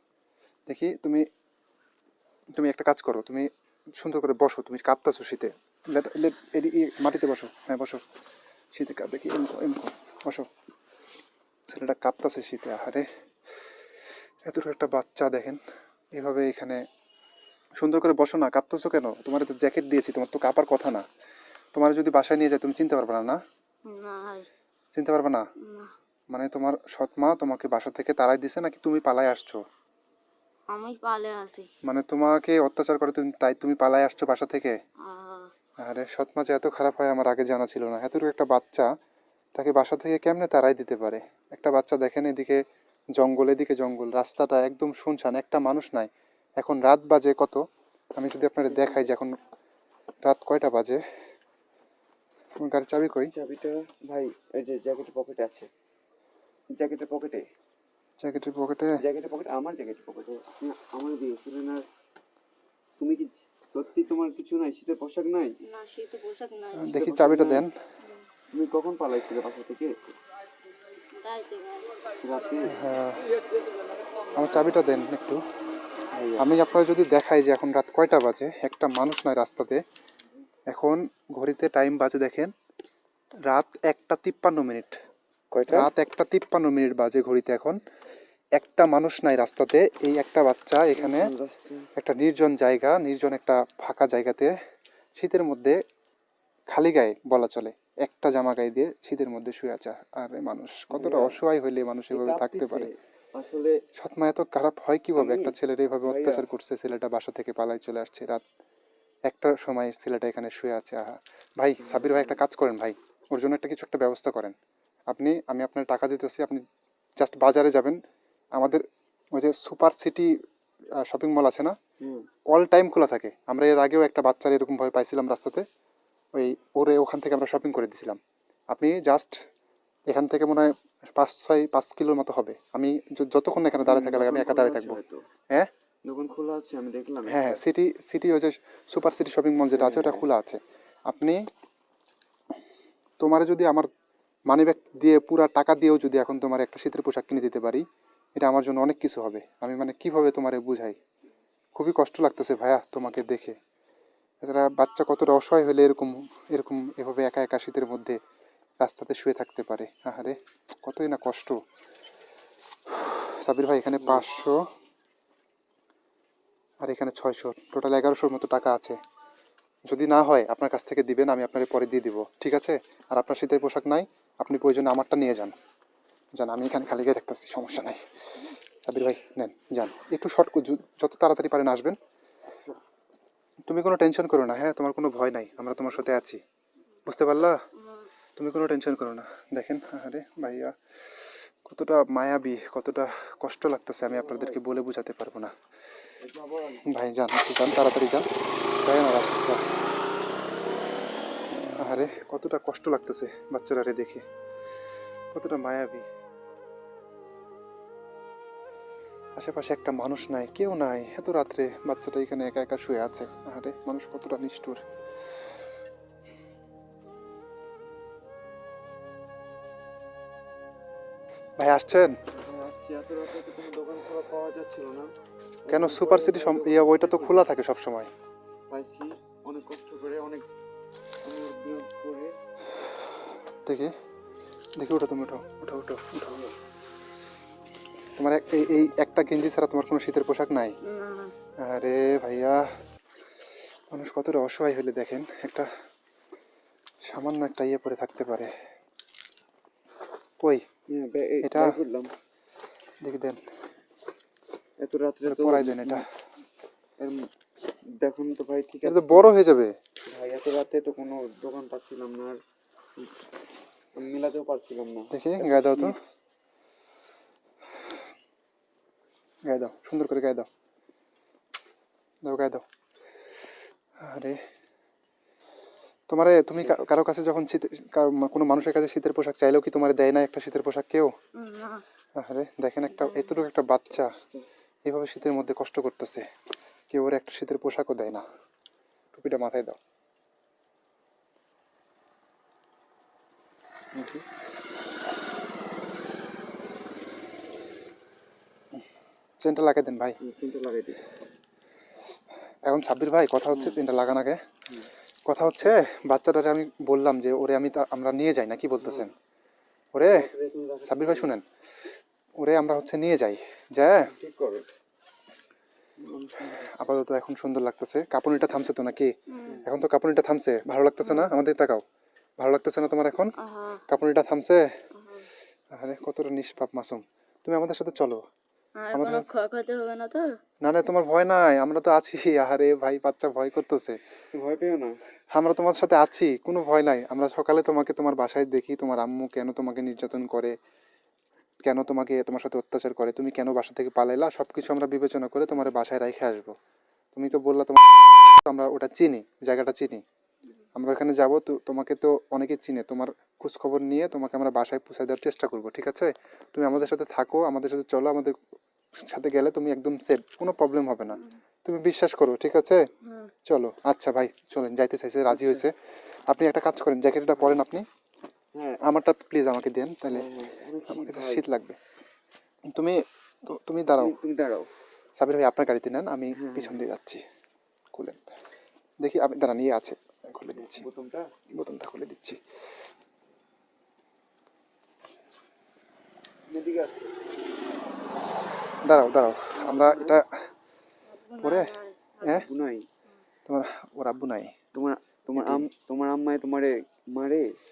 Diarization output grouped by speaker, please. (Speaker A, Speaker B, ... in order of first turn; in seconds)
Speaker A: 0.7-1.3, 2.6-8.0, 8.8-10.5, 11.7-13.1, 14.4-15.6, 16.1-16.8, 17.8-21.1, 21.8-23.4, 24.9-25.4, 26.3-29.6, 31.9-34.7, 35.8-38.9, 39.5-42.6, 43.2-46.1, 46.6-47.6, 48.2-49.3, 50.2-51.0, 52.6-53.3, 58.2-59.0, 66.8-67.7, 72.7-73.3, 74.3-75.4, 76.4-79.8, 80.7-82.5, 83.5-84.9, 85.7-87.8, 88.6-91.3, 92.0-94.5, 95.2-95.8, 96.7-102.9, 104.0-108.4, 109.3-114.5, 115.1-116.6, 117.2-118.0, 118.6-118.8, 119.3-120.3, 121.0-121.8, 122.5-125.7, 126.3-128.2, 128.7-129.3, 130.1-135.0, 137.3-141.4, 143.2-143.9, 144.5-147.8, 148.4-151.0, 151.8-153.6, 154.4-158.2, 158.8-161.6, 162.9-164.6, 166.8-169.0, 169.9-175.5, 176.4-178.0, 178.8-182.0, 183.7-186.4, 187.1-187.6, 188.4-190.8, 191.6-195.5, 196.9-198.2, 198.8-199.6, 201.8-204.2, 205.3-206.1, 209.4-214.8, 221.6-222.1, 225.7-228.1, 233.7-233.9, 234.8-236.4, 238.2-240.8, 241.6-242.6, 243.9-245.7, 247.1-248.5, 251.4-251.8, 253.0-253.4, 255.3-256.0, 258.8-259.7, 265.1-265.9, 269.5-270.5, 272.2-272.6, 274.0-274.4, 276.1-281.1, 282.2-284.1, 284.9-286.2, 286.9-288.2, 289.1-289.8, 293.9-294.2, 299.4-300.2, 302.6-304.4, 305.3-309.1, 309.9-310.3, 310.9-311.4, 312.4-314.1, 316.7-319.1, 319.6-321.8, 322.4-323.3, 323.9-324.7, 325.8-328.2, 328.9-329.2, 330.6-334.0, 335.3-340.6, 341.6-346.5, 347.1-347.8, 348.5-350.0, 350.8-358.4, 359.0-362.8, 363.5-365.8, 366.3-367.9, 368.8-370.3, 370.9-371.8, 372.7-374.1, 375.2-377.2, 377.9-378.3, 379.0-380.9, 381.5-382.4, 388.9-390.3, 391.4-392.4, 393.5-394.5, 395.4-395.7
Speaker B: 23.9-24.5, 25.6-25.9, 30.7-31.7, 35.1-35.5, 65.7-66.9, 71.2-72.1, 187.8-188.1, 240.8-241.3, 281.4-281.8, 282.9-283.4, 319.3-319.6, 321.0-321.3, 323.4-323.9, 325.0-325.3, 328.8-330.3, 363.1-363.3, 391.1-392.5
Speaker C: 48.7-49.1, 53.3-55.7, 56.8-57.4, 59.0-61.8, 63.0-65.5, 66.9-67.7, 68.6-70.2, 72.2-72.8, 76.1-76.5, 85.5-85.9, 91.0-91.9, 100.9-101.4, 102.1-103.8, 105.2-106.5, 111.8-112.4, 122.0-122.3, 133.8-135.2, 136.1-137.6, 139.7-140.3, 182.5-182.8, 194.0-194.6, 196.2-196.9, 222.3-225.1, 225.7-227.5, 228.7-230.4, 231.2-232.3, 250.9-252.1, 254.8-256.0, 258.0-259.3, 260.1-262.4, 264.0-265.9, 276.6-276.9, 284.1-284.4, 300.2-301.0, 303.5-303.8, 308.8-309.1, 310.1-311.3, 314.1-314.6, 316.0-316.9, 334.3-335.0, 365.3-365.7, 368.6-368.8, 370.1-371.5, 374.0-374.7, 376.3-376.8, 380.5-381.3, 386.5-387.1, 389.6-390.2, 392.4-392.8, 394.8-397.5